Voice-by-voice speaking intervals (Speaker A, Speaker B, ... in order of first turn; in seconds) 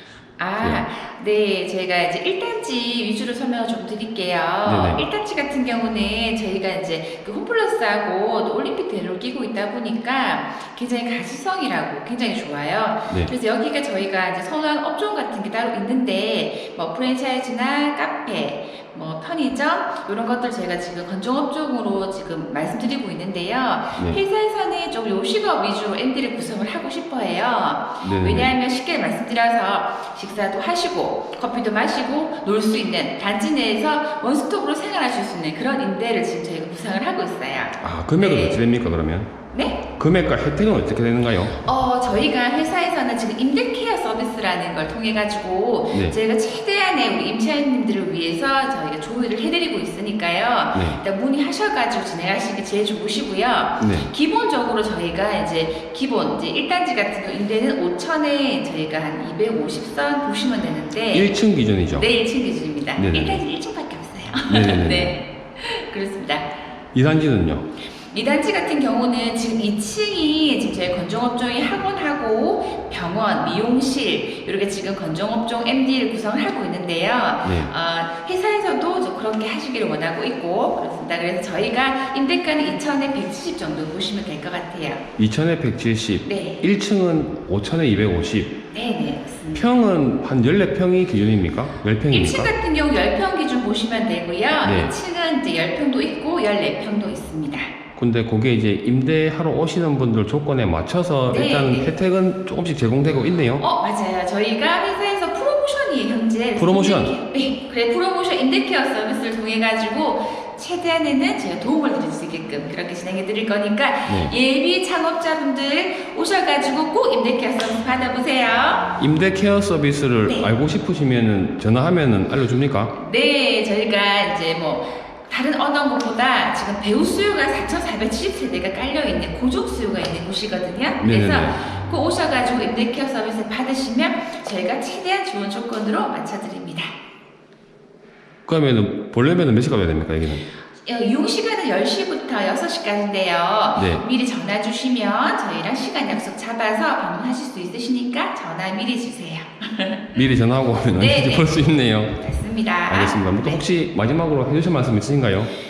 Speaker A: 0.4-38.6, 39.5-39.8, 41.6-61.4, 62.0-66.5, 68.0-85.0, 86.2-86.6, 88.7-89.7, 92.1-97.7, 101.3-101.9, 103.6-118.9, 122.9-136.9, 140.8-150.1, 150.9-153.6
Speaker B: 4.6-5.1, 23.9-24.2, 28.0-28.5, 37.8-39.3, 39.9-41.6, 45.9-46.2, 50.7-51.0, 53.8-54.1, 61.1-62.1, 63.0-63.4, 64.5-65.2, 66.9-67.7, 77.4-77.7, 85.2-88.6, 89.5-92.5, 94.6-94.9, 98.0-103.6, 106.5-107.2, 114.0-114.3, 119.0-122.9, 131.0-131.6, 138.4-140.4, 143.8-144.0, 150.1-152.2, 152.9-155.5